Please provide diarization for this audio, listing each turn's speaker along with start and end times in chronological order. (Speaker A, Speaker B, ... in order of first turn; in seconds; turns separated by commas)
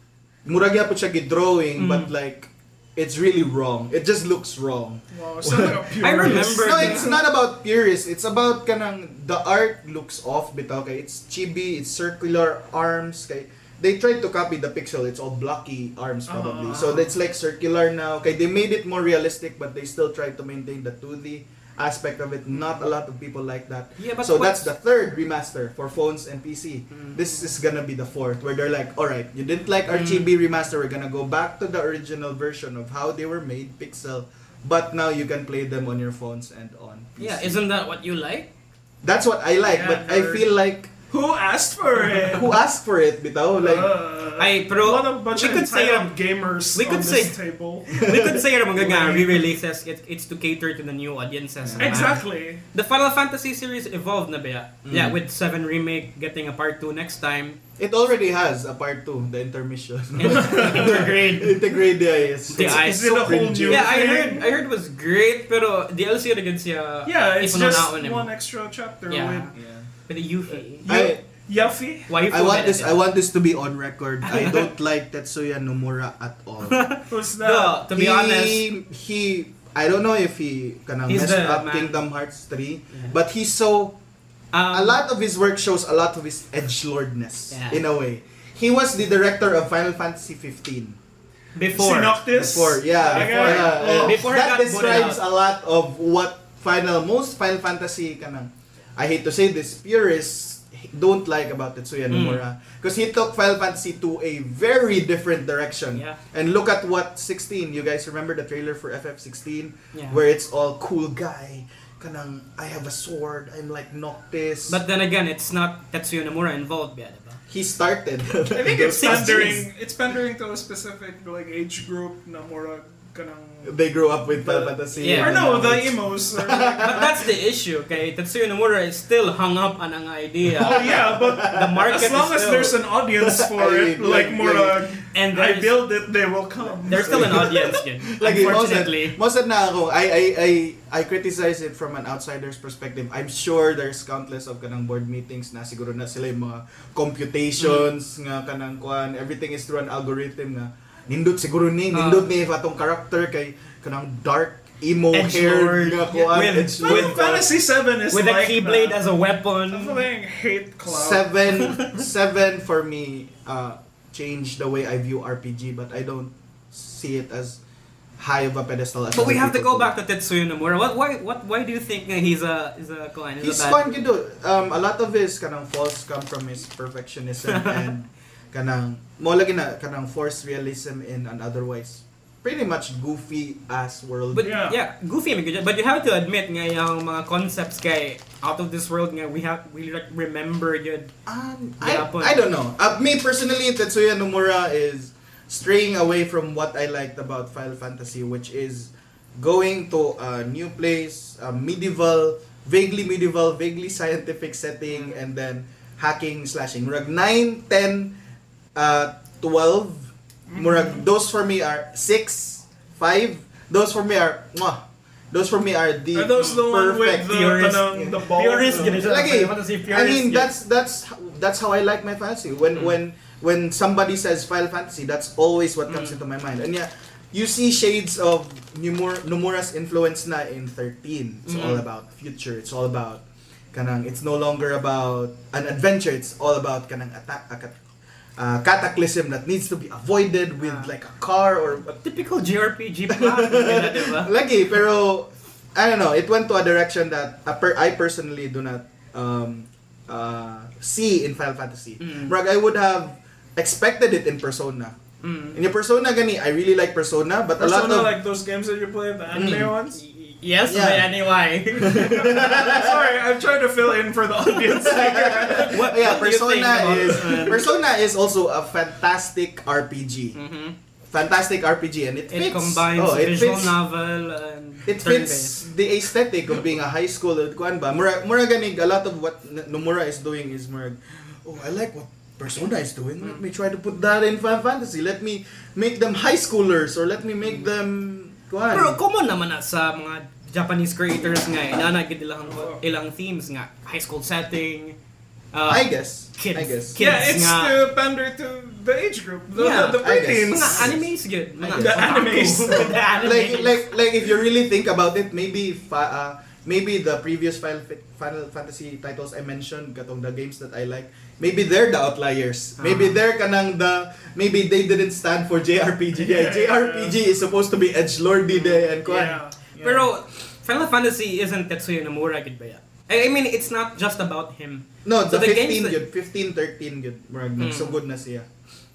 Speaker A: 0.5-37.6, Speaker B: 1.8-2.1, Speaker C: 5.1-7.2, Speaker B: 6.0-7.1, Speaker C: 16.3-16.9, Speaker B: 16.7-17.1, Speaker B: 24.0-24.7, Speaker B: 29.9-30.3, Speaker B: 37.2-38.5, Speaker A: 39.0-40.9, Speaker C: 39.6-40.5, Speaker C: 41.1-42.5, Speaker A: 42.2-43.9, Speaker C: 43.6-48.0, Speaker B: 44.4-46.1, Speaker B: 46.8-47.4, Speaker B: 47.9-57.6, Speaker A: 48.0-48.4, Speaker C: 48.8-49.5, Speaker A: 51.6-52.1, Speaker C: 51.8-52.6, Speaker A: 54.9-55.2, Speaker A: 57.8-63.9, Speaker B: 60.2-61.6, Speaker C: 60.3-61.2, Speaker B: 62.5-68.3, Speaker C: 62.6-64.5, Speaker C: 67.0-69.5, Speaker B: 69.1-69.5, Speaker A: 69.5-69.9, Speaker B: 70.1-70.9, Speaker C: 70.8-72.1, Speaker A: 70.8-71.2, Speaker B: 72.1-73.0, Speaker A: 72.3-76.8, Speaker B: 74.2-74.7, Speaker B: 76.7-78.7, Speaker C: 77.1-77.9, Speaker A: 77.9-84.0, Speaker B: 81.1-82.0, Speaker B: 84.5-85.0, Speaker A: 84.7-91.0, Speaker B: 87.5-87.8, Speaker B: 91.5-92.2, Speaker C: 91.7-94.2, Speaker A: 92.3-114.8, Speaker B: 93.1-95.2, Speaker B: 102.1-102.4, Speaker B: 105.9-106.2, Speaker B: 109.9-110.2, Speaker B: 114.7-117.4, Speaker A: 117.5-119.6, Speaker C: 118.5-127.1, Speaker B: 118.9-119.7, Speaker A: 123.7-127.2, Speaker B: 125.0-125.7, Speaker B: 126.8-132.8, Speaker A: 130.6-131.9, Speaker C: 130.6-137.6, Speaker A: 133.2-134.9, Speaker B: 135.1-135.8, Speaker B: 136.9-139.2, Speaker A: 136.9-157.4, Speaker B: 147.6-147.9, Speaker B: 151.9-152.3, Speaker B: 155.1-157.4, Speaker C: 156.8-159.0, Speaker B: 158.1-160.0, Speaker C: 159.7-161.3, Speaker A: 160.9-167.6, Speaker B: 161.6-162.0, Speaker A: 168.2-169.9, Speaker B: 169.1-173.8, Speaker A: 173.4-184.6, Speaker B: 177.5-177.9, Speaker B: 184.3-191.1, Speaker C: 184.4-184.8, Speaker A: 191.3-208.2, Speaker B: 191.8-192.4, Speaker A: 208.8-237.8, Speaker C: 210.5-211.1, Speaker C: 216.1-219.0, Speaker B: 217.2-220.5, Speaker B: 225.9-226.2, Speaker B: 231.5-231.8, Speaker A: 238.4-242.0, Speaker B: 240.6-240.9, Speaker B: 242.0-244.3, Speaker A: 243.1-255.0, Speaker B: 252.0-252.3, Speaker B: 255.2-255.6, Speaker A: 255.5-258.2, Speaker C: 257.6-260.0, Speaker A: 259.3-259.8, Speaker B: 259.9-262.2, Speaker A: 260.7-261.1, Speaker A: 261.7-263.2, Speaker C: 261.8-266.0, Speaker A: 264.7-270.4, Speaker B: 265.4-267.7, Speaker B: 270.4-270.8, Speaker A: 271.1-273.8, Speaker B: 272.3-275.7, Speaker A: 274.9-289.0, Speaker B: 288.7-295.0, Speaker C: 292.5-292.8, Speaker B: 295.5-297.8, Speaker A: 295.7-297.0, Speaker C: 297.0-300.9, Speaker B: 299.6-303.9, Speaker A: 300.0-301.1, Speaker A: 301.6-302.2, Speaker C: 301.7-303.2, Speaker A: 302.8-320.1, Speaker B: 312.8-313.2, Speaker C: 316.1-317.2, Speaker B: 318.5-319.3, Speaker C: 319.1-319.6, Speaker B: 319.8-326.0, Speaker A: 325.1-328.5, Speaker B: 327.6-328.0